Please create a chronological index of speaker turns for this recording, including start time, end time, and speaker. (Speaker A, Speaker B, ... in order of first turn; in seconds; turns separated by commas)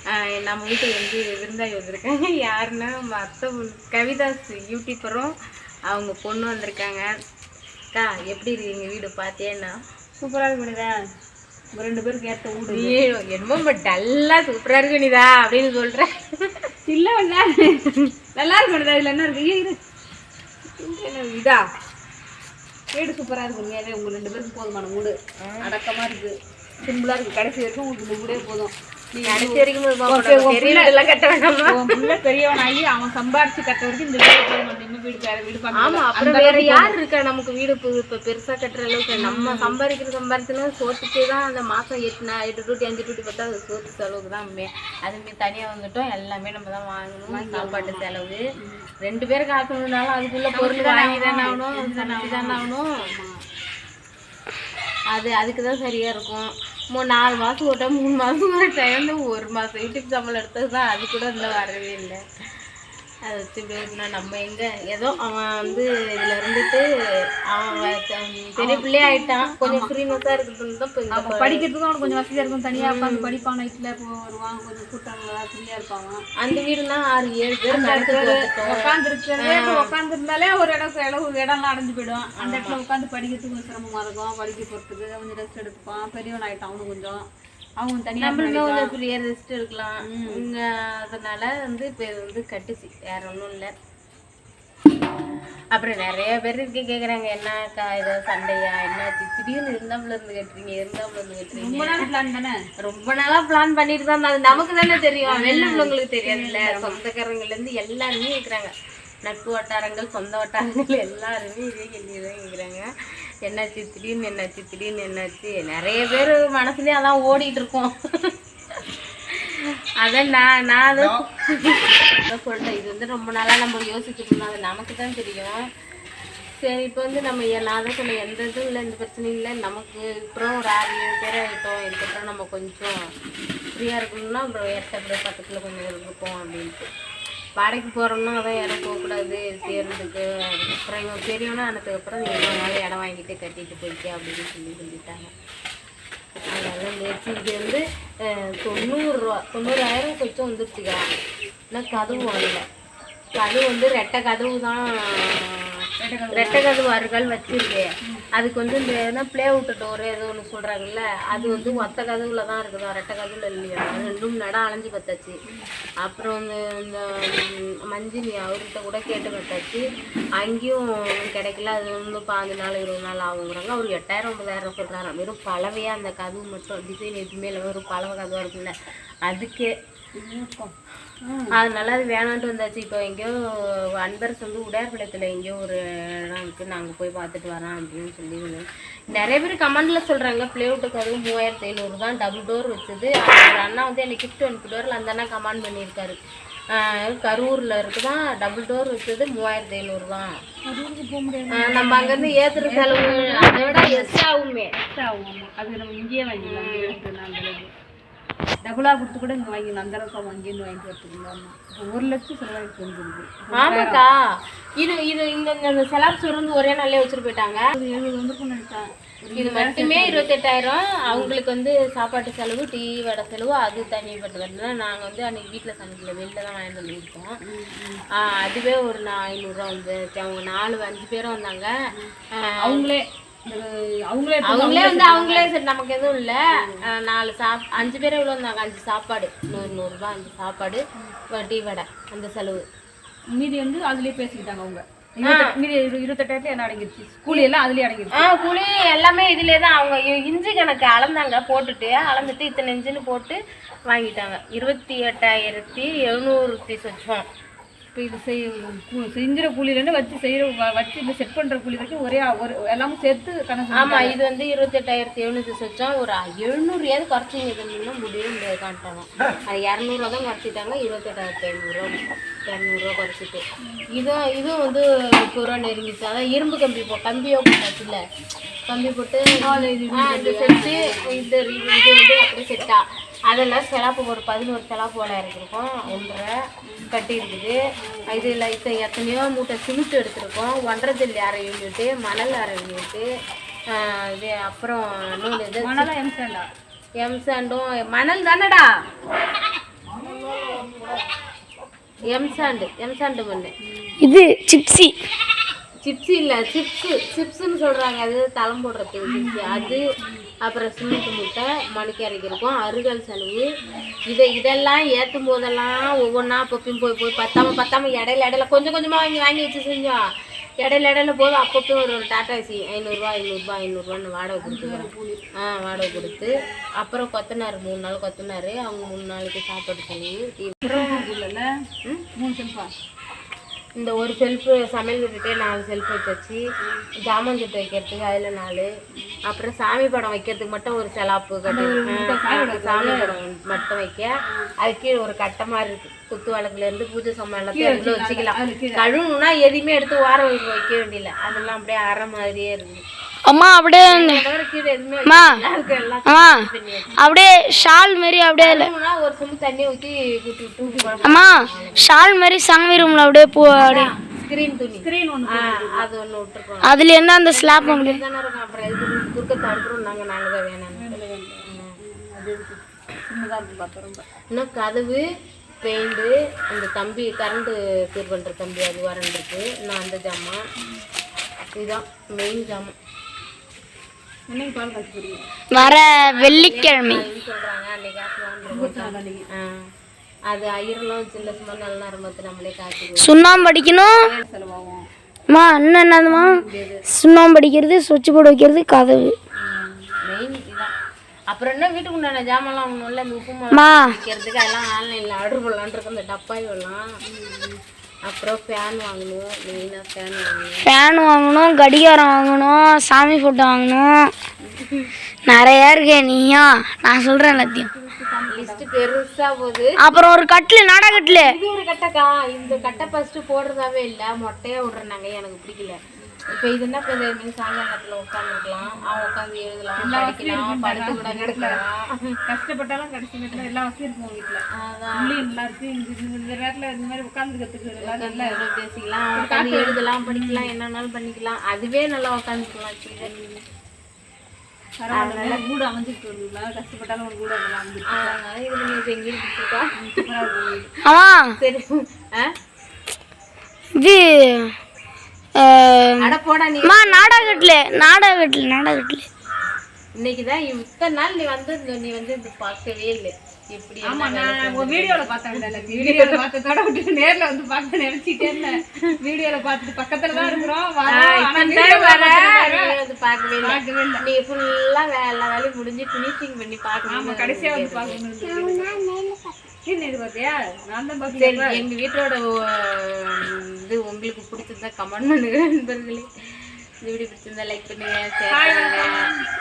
Speaker A: 0.2-5.3, Speaker A: 5.9-7.1, Speaker A: 7.9-9.8, Speaker B: 10.2-11.0, Speaker B: 11.7-13.0, Speaker A: 12.7-16.6, Speaker B: 16.9-19.8, Speaker B: 20.8-21.6, Speaker B: 22.9-30.9, Speaker A: 25.4-25.7, Speaker A: 29.2-32.1, Speaker B: 31.7-36.9, Speaker A: 35.7-48.4, Speaker B: 39.2-39.8, Speaker B: 47.3-48.0, Speaker B: 48.6-48.9, Speaker A: 49.0-53.0, Speaker B: 50.5-53.4, Speaker A: 55.1-62.2, Speaker A: 63.2-66.8, Speaker A: 67.5-71.6, Speaker B: 68.6-69.9, Speaker B: 71.1-76.2, Speaker A: 72.7-73.3, Speaker A: 76.4-78.8, Speaker B: 77.7-87.2, Speaker A: 79.4-79.9, Speaker A: 82.4-82.8, Speaker B: 87.8-88.9, Speaker A: 88.2-93.7, Speaker B: 90.0-90.4, Speaker A: 95.7-102.0, Speaker B: 101.5-102.6, Speaker A: 102.8-108.7, Speaker B: 105.2-107.0, Speaker A: 109.2-112.9, Speaker A: 113.4-117.9, Speaker A: 120.0-125.6, Speaker A: 126.6-132.9, Speaker A: 133.8-136.9, Speaker A: 137.6-145.3, Speaker A: 146.5-151.0, Speaker A: 151.7-152.6, Speaker B: 152.0-152.3, Speaker A: 153.3-155.8, Speaker B: 156.0-156.6, Speaker A: 156.3-165.3, Speaker B: 161.3-161.9, Speaker A: 166.0-169.8, Speaker A: 170.3-179.7, Speaker B: 180.2-180.7, Speaker B: 181.2-181.5, Speaker A: 181.5-183.3, Speaker A: 183.9-196.2, Speaker A: 196.7-200.3, Speaker B: 200.7-204.1, Speaker A: 201.5-204.7, Speaker B: 204.8-207.7, Speaker A: 206.4-206.9, Speaker B: 208.6-214.0, Speaker A: 213.5-214.2, Speaker A: 214.8-217.6, Speaker B: 217.7-220.3, Speaker A: 219.3-227.3, Speaker B: 221.1-221.3, Speaker B: 227.4-228.0, Speaker A: 228.2-231.7, Speaker B: 231.9-235.5, Speaker A: 232.4-232.9, Speaker A: 234.4-242.6, Speaker B: 236.5-236.8, Speaker B: 243.3-248.2, Speaker A: 245.2-245.5, Speaker A: 248.1-257.2, Speaker B: 257.9-264.1, Speaker A: 263.7-271.9, Speaker A: 272.5-273.4, Speaker A: 273.9-278.0, Speaker A: 278.7-286.3, Speaker B: 279.4-281.3, Speaker B: 285.9-286.1, Speaker A: 286.9-287.6, Speaker B: 287.8-288.3, Speaker A: 288.1-293.1, Speaker A: 293.7-295.9, Speaker B: 295.6-296.5, Speaker A: 297.0-298.6, Speaker A: 302.1-303.5, Speaker B: 302.1-302.6, Speaker B: 303.6-304.0, Speaker C: 304.0-304.9, Speaker A: 305.8-309.8, Speaker B: 309.0-310.3, Speaker A: 310.4-313.4, Speaker B: 313.7-314.0, Speaker A: 314.1-320.0, Speaker A: 320.6-331.0, Speaker B: 324.4-325.2, Speaker B: 325.7-326.6, Speaker B: 330.6-331.5, Speaker B: 332.1-332.7, Speaker A: 333.8-336.4, Speaker B: 336.6-336.9, Speaker A: 337.0-338.7, Speaker A: 339.2-352.8, Speaker B: 341.5-343.1, Speaker B: 344.2-344.5, Speaker B: 347.5-348.8, Speaker C: 353.2-354.2, Speaker A: 353.9-357.7, Speaker C: 355.1-355.4, Speaker C: 356.1-356.4, Speaker C: 357.0-358.7, Speaker A: 358.4-361.9, Speaker B: 360.6-361.8, Speaker C: 361.0-363.9, Speaker A: 363.5-371.8, Speaker B: 364.7-365.9, Speaker C: 366.6-368.0, Speaker B: 370.7-374.0, Speaker A: 374.3-375.0, Speaker A: 375.6-380.4, Speaker A: 381.5-382.7, Speaker B: 384.3-385.3, Speaker C: 385.5-387.0, Speaker A: 385.6-389.6, Speaker B: 388.5-389.2, Speaker A: 390.3-393.5, Speaker C: 393.0-394.0, Speaker B: 393.8-394.9, Speaker C: 395.3-399.1, Speaker B: 396.1-396.8, Speaker B: 399.6-399.9, Speaker A: 400.0-400.7, Speaker A: 401.3-406.9, Speaker C: 403.5-403.9, Speaker B: 407.0-407.6, Speaker A: 408.1-410.6, Speaker C: 410.6-414.1, Speaker A: 414.6-414.9, Speaker C: 415.3-417.7, Speaker B: 417.3-418.6, Speaker A: 418.3-419.9, Speaker C: 419.8-421.3, Speaker A: 420.9-425.8, Speaker B: 422.5-422.9, Speaker A: 426.3-432.1, Speaker B: 429.8-431.6, Speaker B: 432.3-434.4, Speaker A: 434.5-435.1, Speaker B: 435.0-438.4, Speaker A: 437.8-443.1, Speaker B: 439.1-440.5, Speaker B: 443.0-443.4, Speaker B: 444.8-448.1, Speaker A: 444.9-445.4, Speaker A: 447.9-449.7, Speaker B: 449.8-450.7, Speaker C: 450.8-451.3, Speaker A: 451.4-452.3, Speaker C: 453.8-454.5, Speaker C: 455.4-456.0, Speaker A: 456.0-458.0, Speaker C: 456.6-459.1, Speaker A: 459.9-466.2, Speaker B: 463.8-472.8, Speaker A: 468.2-469.0, Speaker A: 470.1-478.0, Speaker B: 473.4-474.0, Speaker B: 476.9-478.8, Speaker C: 478.3-479.3, Speaker B: 479.6-481.6, Speaker A: 481.1-486.1, Speaker A: 486.8-488.9, Speaker B: 488.3-489.2